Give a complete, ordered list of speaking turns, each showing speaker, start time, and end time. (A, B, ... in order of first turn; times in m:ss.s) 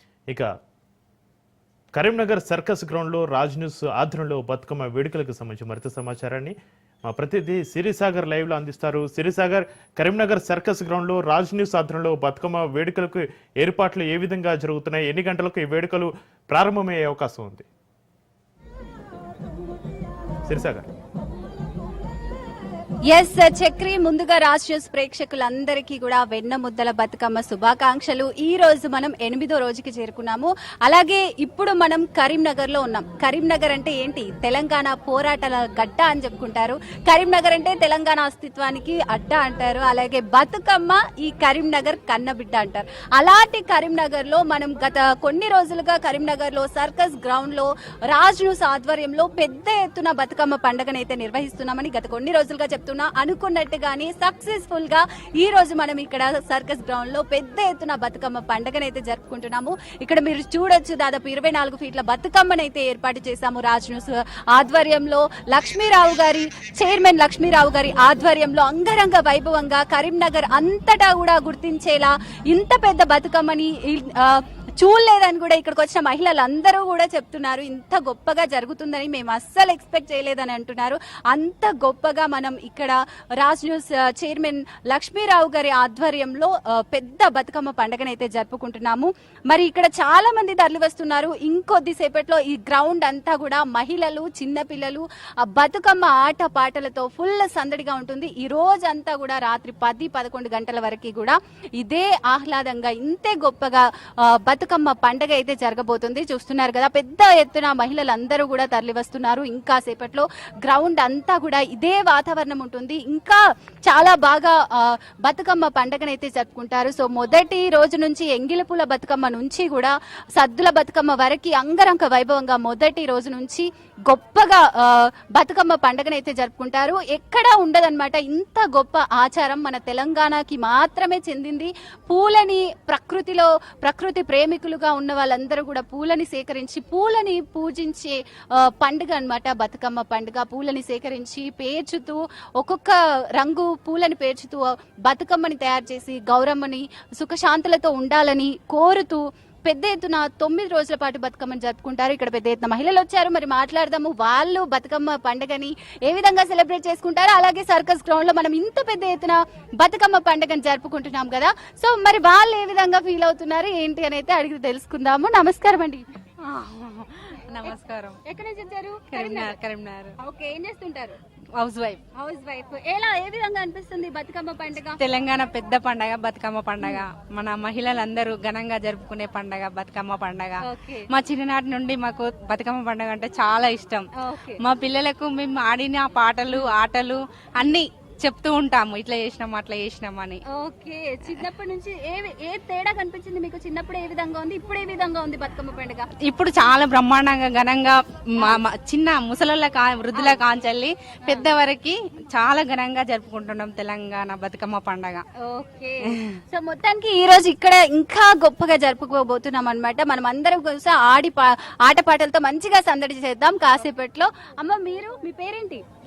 0:01.9-0:17.7 A
0:20.4-0:20.9 A
0:23.1-2:46.0 B
2:46.4-2:48.2 C
2:48.2-2:49.6 B
2:49.1-2:50.1 C
2:50.2-2:51.2 B
2:51.6-2:52.0 C
2:52.1-2:55.0 B
2:54.9-3:10.4 C
3:00.6-3:01.1 B
3:04.1-3:04.6 B
3:10.5-3:16.1 B
3:16.2-3:25.2 C
3:20.1-3:20.4 B
3:25.4-3:35.8 B